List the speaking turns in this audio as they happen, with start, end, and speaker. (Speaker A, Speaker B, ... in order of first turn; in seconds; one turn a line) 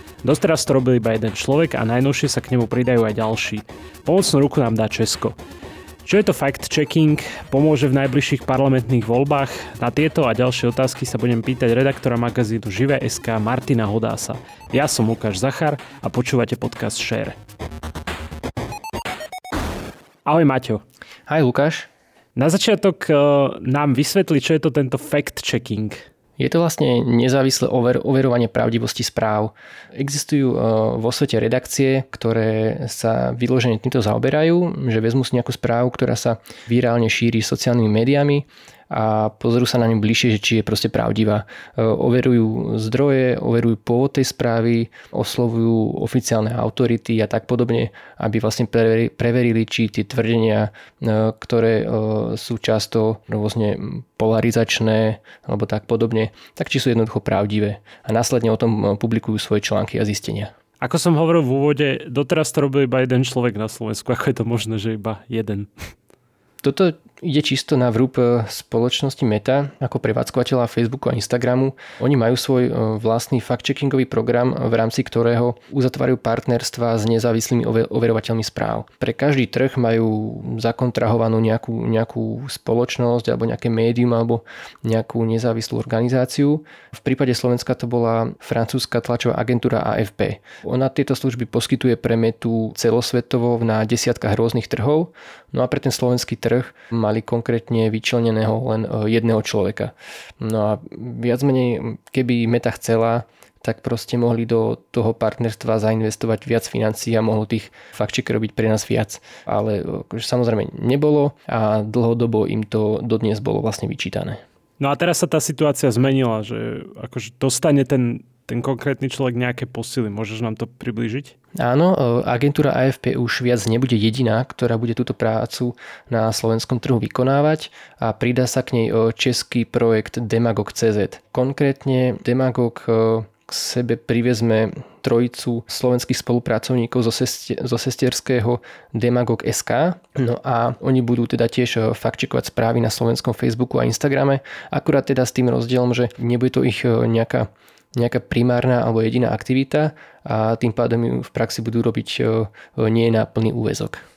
Speaker A: 0.2-5.3
Speaker A: 6.0-17.4
Speaker A: 20.2-20.8
Speaker B: 21.3-21.9
Speaker A: 22.4-26.0
Speaker B: 26.4-60.5
Speaker A: 60.8-65.7
Speaker B: 66.6-114.4
Speaker A: 114.8-121.3
Speaker B: 121.6-154.0